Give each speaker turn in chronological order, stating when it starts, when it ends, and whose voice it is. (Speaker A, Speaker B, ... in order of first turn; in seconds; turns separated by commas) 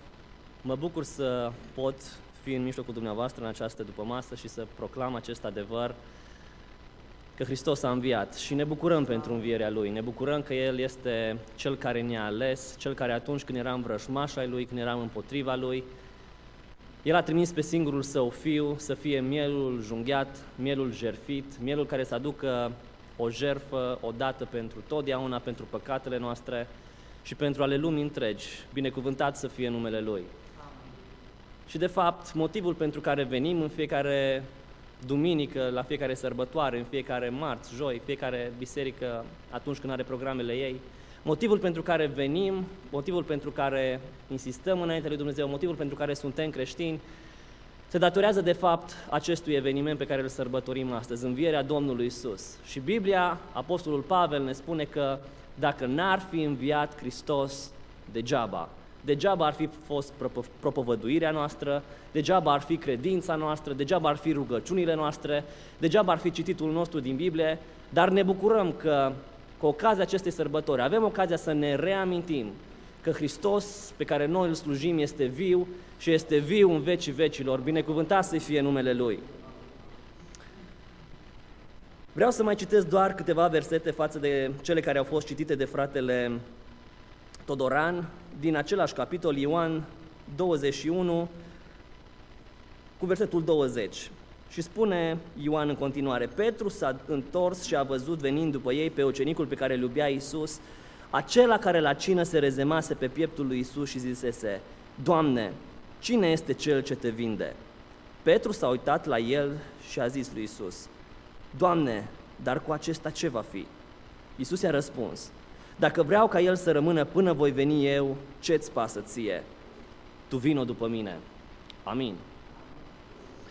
Speaker A: 0.6-6.0, Speaker A: 7.4-15.9, Speaker A: 17.0-26.7, Speaker A: 27.2-30.3, Speaker A: 31.7-34.5, Speaker A: 35.0-47.0, Speaker A: 47.9-79.2, Speaker A: 82.2-86.4, Speaker A: 87.5-91.3, Speaker A: 93.0-100.6, Speaker A: 101.1-107.6, Speaker A: 108.2-110.9, Speaker A: 111.5-113.7, Speaker A: 114.4-119.5, Speaker A: 120.3-121.2, Speaker A: 121.8-122.2